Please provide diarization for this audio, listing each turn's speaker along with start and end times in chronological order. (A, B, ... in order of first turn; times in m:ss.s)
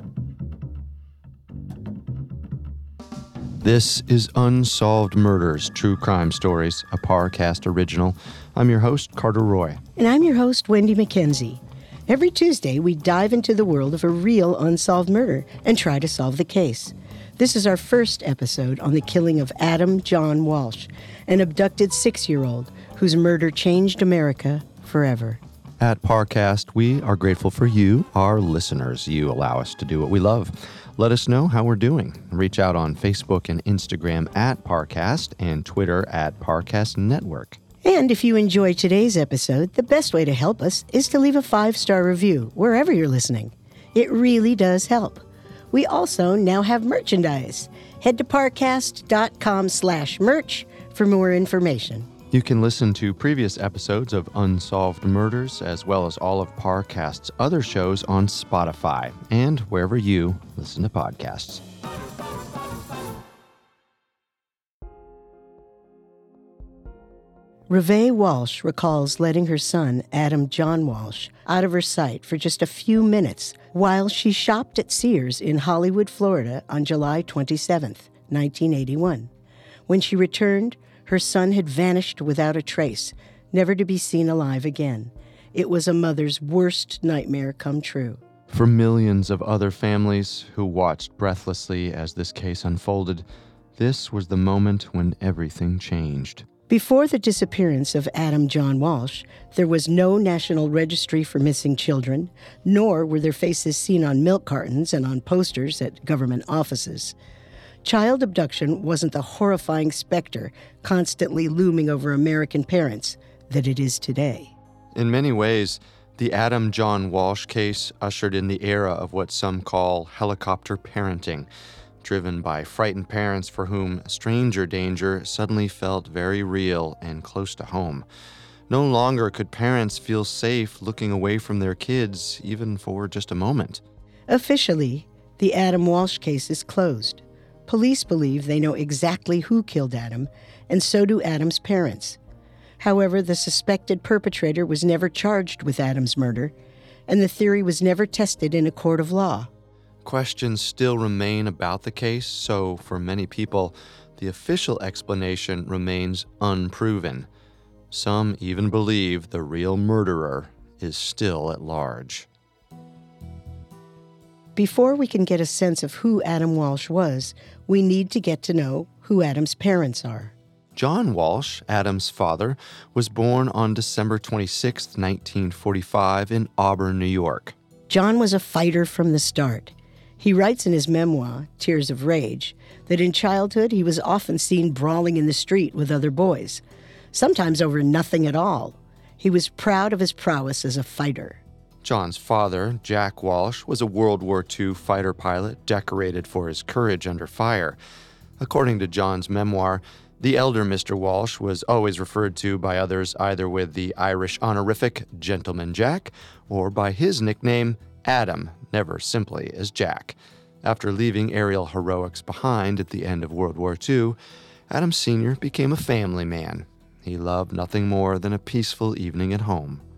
0:03.6-0:09.8 A
0:10.0-0:25.4 B
0:25.8-0:37.6 A
0:37.8-0:52.1 B
0:52.3-1:01.6 A
1:07.7-1:19.3 B
1:19.9-1:28.2 B
1:28.5-1:33.2 A
1:33.8-1:36.4 A
1:36.7-1:47.1 B
1:47.8-1:54.5 B
1:54.9-2:01.5 A
2:02.0-2:08.0 A
2:08.7-2:13.8 A
2:14.3-2:22.2 B
2:22.8-2:26.5 B
2:27.1-2:29.5 B
2:30.0-2:37.3 A
2:37.9-2:42.3 A
2:44.6-2:50.3 B
2:50.7-2:57.5 A
2:57.9-3:06.6 B
3:07.1-3:11.4 B
3:11.8-3:17.8 A
3:18.4-3:34.2 A
3:34.7-3:39.8 A